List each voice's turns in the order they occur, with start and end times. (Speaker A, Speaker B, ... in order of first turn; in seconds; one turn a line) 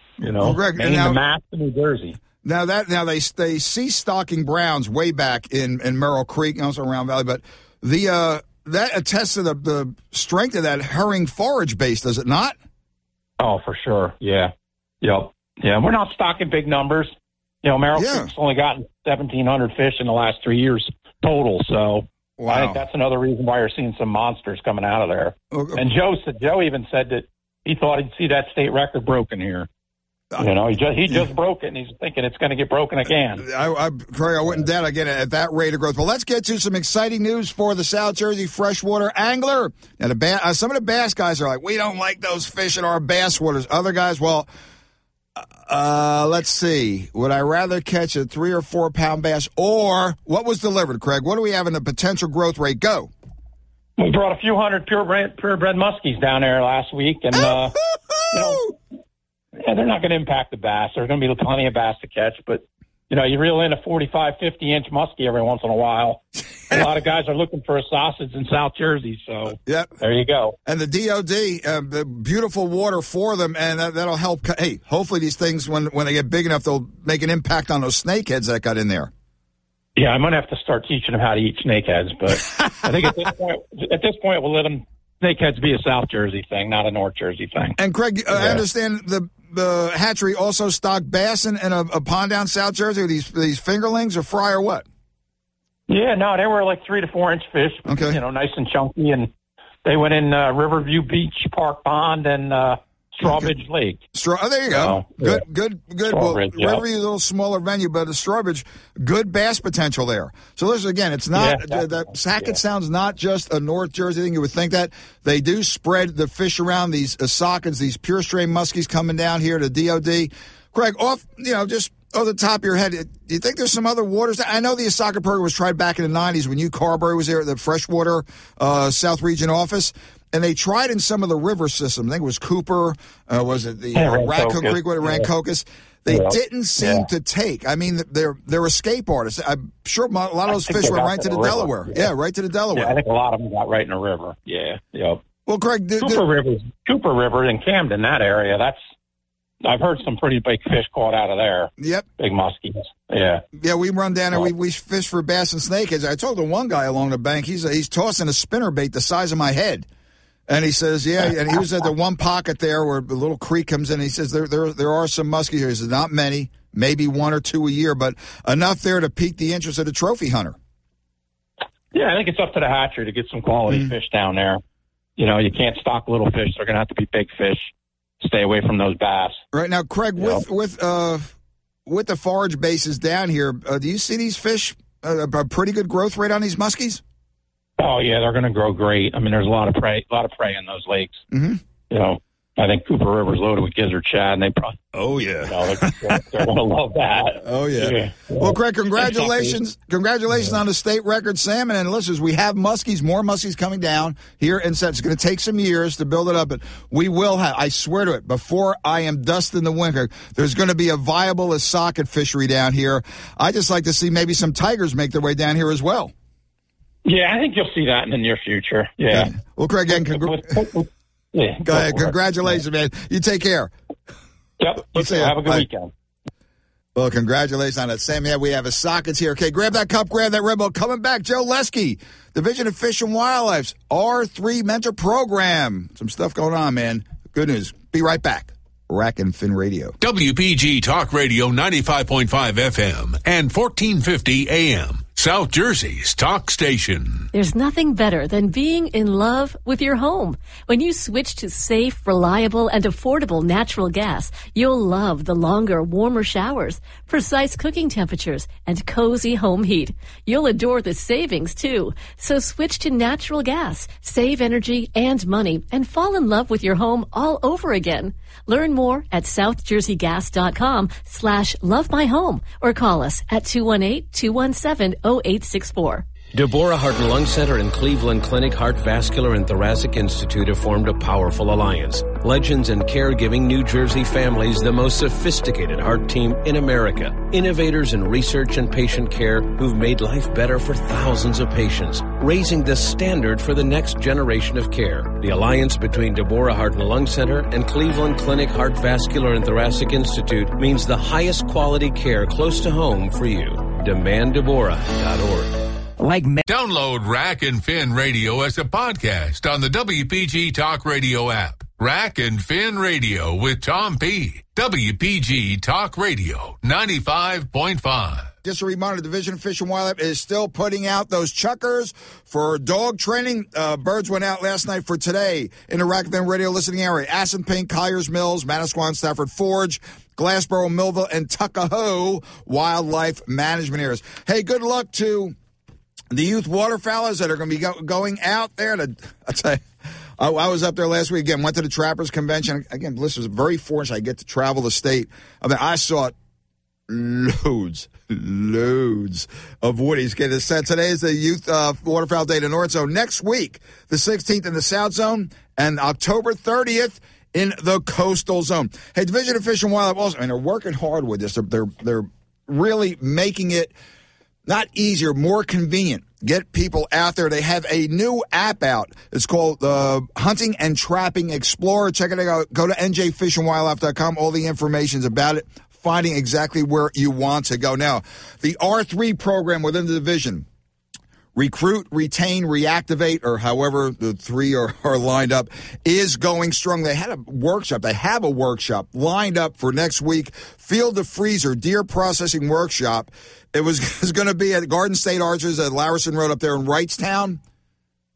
Speaker A: 0.2-2.2
Speaker B: 0.4-1.2
Speaker B: 2.4-12.6
Speaker A: 13.4-29.7
Speaker B: 17.9-18.3
Speaker B: 22.4-22.8
Speaker B: 25.5-25.8
Speaker A: 30.4-33.5
Speaker B: 33.4-44.5
Speaker B: 45.4-53.1
Speaker A: 54.0-57.8
Speaker B: 57.3-58.7
Speaker A: 58.3-58.7
Speaker A: 59.6-70.5
Speaker B: 69.6-69.9
Speaker B: 70.6-79.1
Speaker A: 80.0-87.8
Speaker B: 87.8-94.8
Speaker A: 88.3-88.6
Speaker A: 95.9-99.3
Speaker B: 97.9-98.2
Speaker A: 99.8-104.0
Speaker B: 103.2-103.5
Speaker B: 104.1-142.9
Speaker A: 104.7-105.4
Speaker A: 106.1-106.8
Speaker A: 111.3-112.6
Speaker A: 133.9-135.3
Speaker A: 136.1-137.1
Speaker A: 140.5-142.0
Speaker A: 142.7-145.2
Speaker B: 145.5-146.2
Speaker A: 146.0-148.9
Speaker A: 149.6-153.4
Speaker B: 151.8-152.1
Speaker B: 153.6-159.9
Speaker B: 160.5-170.6
Speaker A: 171.9-174.6
Speaker A: 175.2-179.4
Speaker B: 179.5-181.3
Speaker A: 180.2-180.4
Speaker B: 181.8-187.0
Speaker A: 187.8-191.2
Speaker B: 191.3-191.6
Speaker A: 191.9-194.8
Speaker B: 194.9-196.2
Speaker A: 195.4-199.6
Speaker B: 197.4-216.1
Speaker A: 217.0-219.3
Speaker B: 219.1-220.5
Speaker A: 219.9-222.1
Speaker B: 221.6-223.7
Speaker A: 224.6-225.9
Speaker B: 224.9-225.7
Speaker B: 226.9-239.9
Speaker C: 240.0-247.3
Speaker D: 247.3-276.0
Speaker E: 276.3-305.5
Speaker A: 306.0-306.4
Speaker C: 306.4-318.3
Speaker B: 318.4-335.3
Speaker B: 336.1-339.6
Speaker B: 340.2-346.1
Speaker B: 346.9-363.7
Speaker B: 364.4-380.4
Speaker B: 381.3-397.4